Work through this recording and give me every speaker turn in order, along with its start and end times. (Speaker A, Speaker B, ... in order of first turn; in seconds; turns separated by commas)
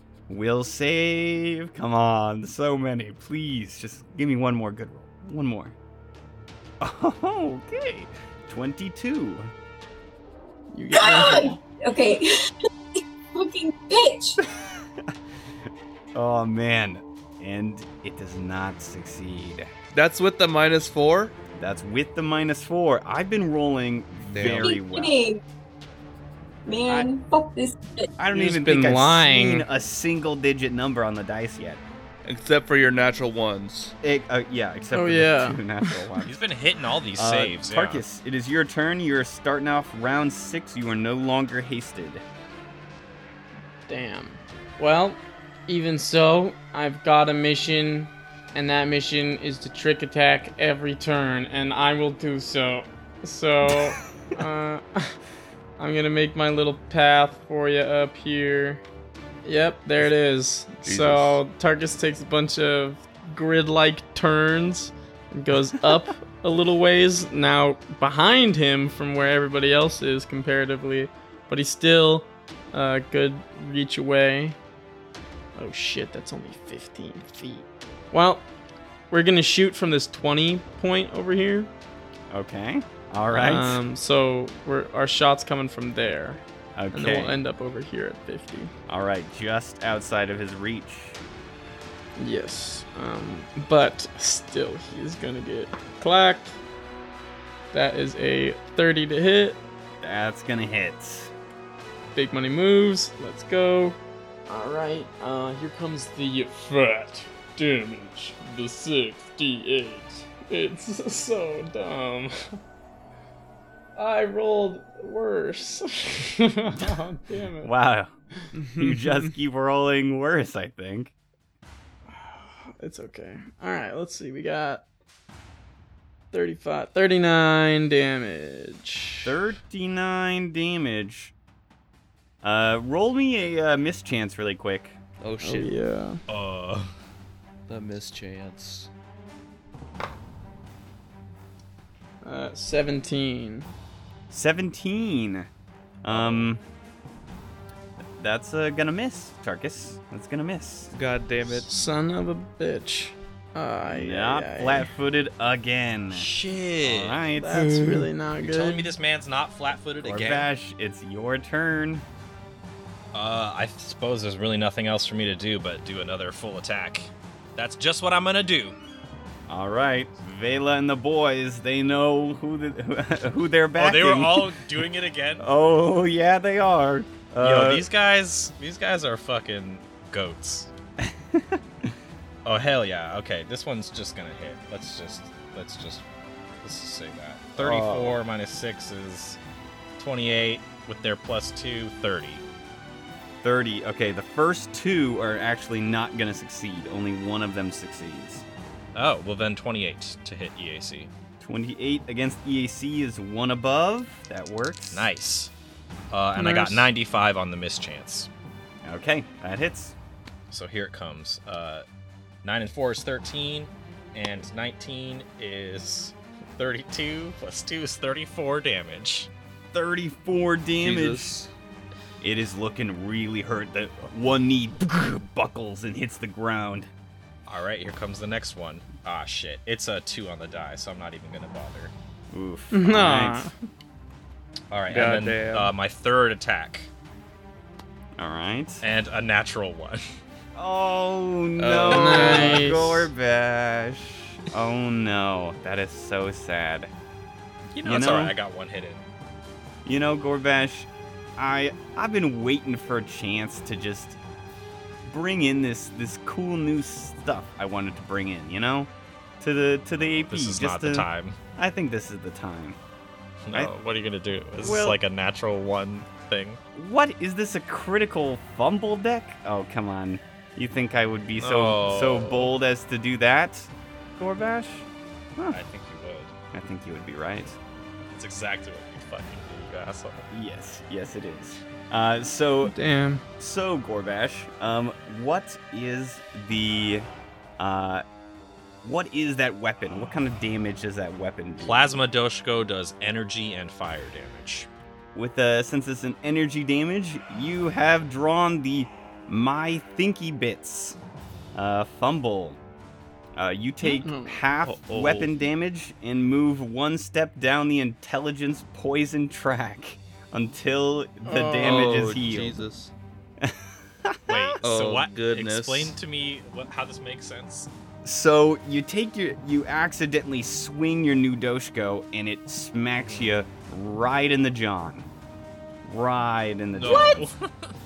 Speaker A: 0.3-5.7, Speaker A: 6.8-9.5, Speaker B: 10.7-11.6, Speaker C: 10.9-12.3, Speaker C: 13.3-14.4, Speaker A: 14.4-15.1, Speaker A: 16.1-19.7, Speaker D: 19.9-21.4, Speaker A: 21.6-25.2, Speaker D: 24.3-24.9, Speaker C: 24.6-25.4, Speaker C: 26.7-28.1, Speaker A: 28.2-31.8, Speaker B: 28.3-29.7, Speaker D: 32.2-33.9, Speaker A: 34.0-36.4, Speaker B: 34.9-36.0, Speaker E: 36.2-38.0, Speaker A: 37.2-42.2, Speaker B: 43.9-55.2, Speaker B: 55.8-58.8, Speaker B: 59.5-74.6, Speaker D: 60.8-61.4, Speaker B: 75.6-78.5, Speaker B: 79.1-81.7, Speaker A: 82.3-83.8, Speaker B: 83.3-88.7, Speaker A: 86.8-87.3, Speaker A: 88.9-91.2, Speaker B: 92.2-96.5, Speaker B: 97.7-99.6, Speaker A: 100.0-101.3, Speaker B: 102.1-104.0, Speaker B: 104.5-112.6, Speaker B: 114.0-117.7, Speaker A: 116.7-121.1, Speaker B: 118.5-119.3, Speaker B: 122.1-124.8, Speaker B: 126.3-129.3, Speaker A: 129.2-131.3, Speaker A: 132.4-135.0, Speaker D: 135.2-135.7, Speaker B: 135.4-136.2, Speaker E: 136.3-136.9, Speaker D: 137.7-138.9, Speaker B: 142.2-143.7, Speaker A: 144.3-145.5, Speaker A: 146.0-146.6, Speaker E: 146.1-146.5, Speaker A: 148.2-150.9, Speaker D: 150.9-151.9, Speaker B: 151.5-154.9, Speaker A: 153.9-156.3, Speaker E: 156.1-157.6, Speaker A: 156.8-158.1, Speaker B: 157.3-158.9, Speaker E: 158.5-160.5, Speaker A: 160.0-162.0, Speaker E: 163.1-168.8, Speaker A: 169.5-174.6, Speaker E: 173.8-175.5, Speaker A: 175.4-177.9, Speaker E: 177.4-180.7, Speaker A: 181.0-181.9, Speaker E: 182.4-186.1, Speaker E: 186.6-189.4, Speaker A: 187.6-188.2, Speaker E: 190.0-192.4, Speaker A: 193.4-198.4, Speaker E: 198.9-201.1, Speaker A: 201.4-205.1, Speaker E: 204.9-205.5, Speaker E: 206.1-208.3, Speaker B: 206.4-206.9, Speaker A: 208.8-209.9, Speaker E: 210.5-211.8, Speaker E: 212.4-219.3, Speaker A: 219.7-221.3, Speaker D: 220.8-221.5, Speaker A: 222.2-226.9, Speaker E: 227.5-231.9, Speaker A: 232.3-233.5, Speaker B: 232.7-233.6, Speaker E: 234.7-236.9, Speaker D: 234.9-235.7, Speaker A: 238.2-238.8, Speaker E: 238.8-240.0, Speaker A: 240.6-246.9, Speaker D: 241.6-242.6, Speaker B: 241.9-243.1, Speaker E: 247.7-249.0, Speaker A: 247.8-248.3, Speaker A: 249.8-254.2, Speaker A: 255.1-258.9, Speaker A: 259.4-262.8, Speaker E: 260.3-261.4, Speaker E: 263.4-266.6, Speaker A: 264.6-265.0, Speaker A: 266.7-275.6, Speaker E: 271.4-272.5, Speaker E: 275.5-276.3, Speaker A: 276.5-277.6, Speaker E: 278.1-280.2, Speaker A: 280.3-282.7, Speaker B: 282.6-283.2, Speaker A: 283.4-287.1, Speaker A: 287.6-288.0, Speaker A: 288.8-291.9, Speaker E: 291.6-294.7, Speaker A: 295.1-301.0, Speaker A: 301.6-302.6, Speaker A: 303.4-312.6, Speaker B: 303.8-304.4, Speaker D: 304.6-305.4, Speaker B: 311.2-311.9, Speaker D: 311.6-312.9, Speaker A: 313.4-314.6, Speaker E: 314.3-317.7, Speaker D: 314.6-315.9, Speaker A: 318.0-325.1, Speaker E: 323.0-323.3, Speaker A: 325.8-327.3, Speaker E: 326.8-327.7, Speaker C: 326.8-327.2